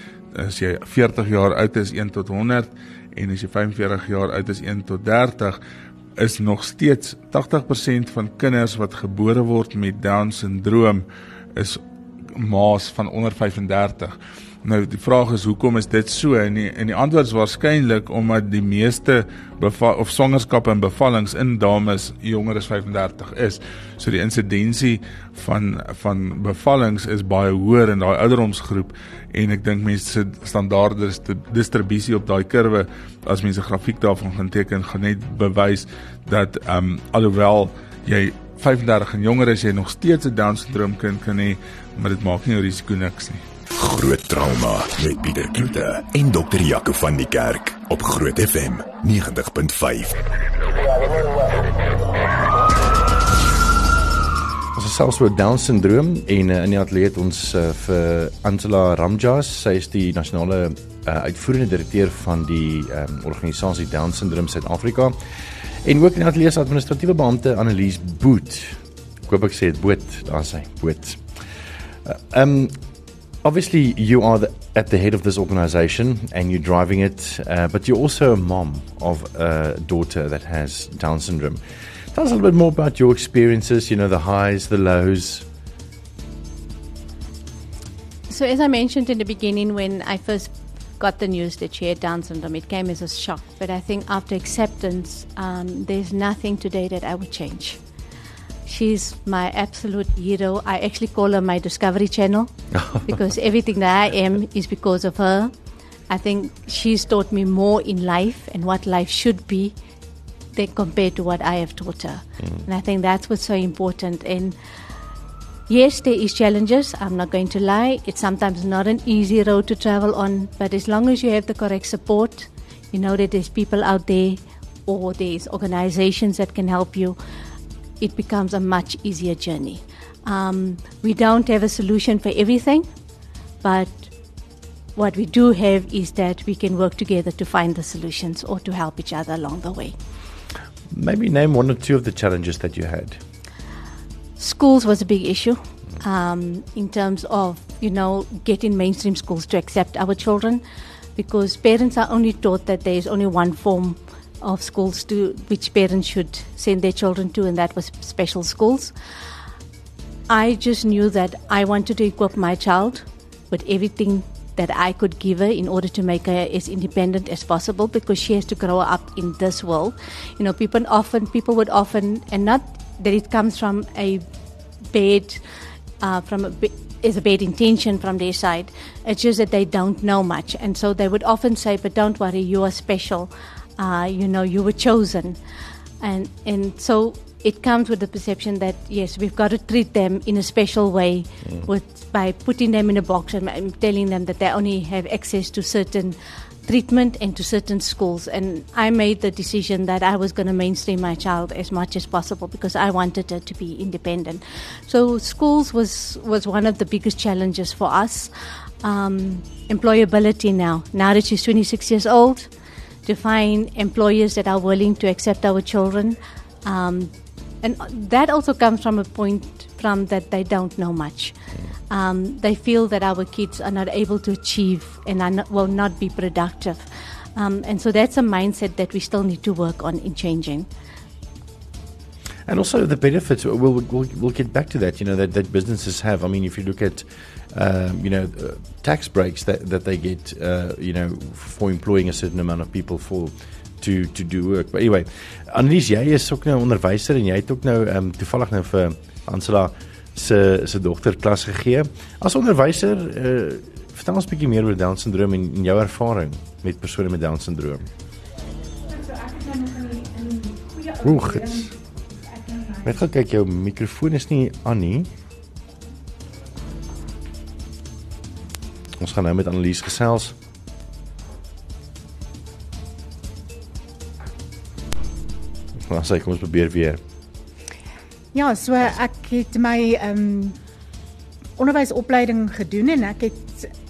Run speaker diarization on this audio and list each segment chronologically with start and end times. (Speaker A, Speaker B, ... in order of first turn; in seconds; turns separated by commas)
Speaker A: 0.3-5.6, Speaker A: 6.2-11.0, Speaker A: 11.6-11.8, Speaker A: 12.3-43.4, Speaker B: 43.7-50.2, Speaker C: 54.7-65.2, Speaker C: 65.8-71.2, Speaker C: 72.0-72.8, Speaker C: 73.4-81.6, Speaker C: 82.1-85.5, Speaker D: 88.3-97.8, Speaker D: 98.7-105.5, Speaker D: 106.1-109.7, Speaker D: 110.5-114.5, Speaker D: 115.7-127.2, Speaker D: 128.0-132.8, Speaker D: 133.6-134.1, Speaker D: 134.9-139.9, Speaker C: 140.9-143.2, Speaker D: 144.4-150.6, Speaker D: 151.2-158.9, Speaker D: 160.3-174.2, Speaker D: 174.9-175.4, Speaker D: 176.0-185.4, Speaker D: 186.0-208.3, Speaker D: 208.8-212.5, Speaker D: 213.1-221.3, Speaker D: 221.9-230.7, Speaker C: 232.5-257.9, Speaker E: 258.9-261.8, Speaker C: 261.0-261.7, Speaker E: 262.3-262.9, Speaker C: 262.8-265.1, Speaker C: 269.0-270.4, Speaker C: 275.8-277.0, Speaker E: 278.3-280.6, Speaker E: 281.6-283.7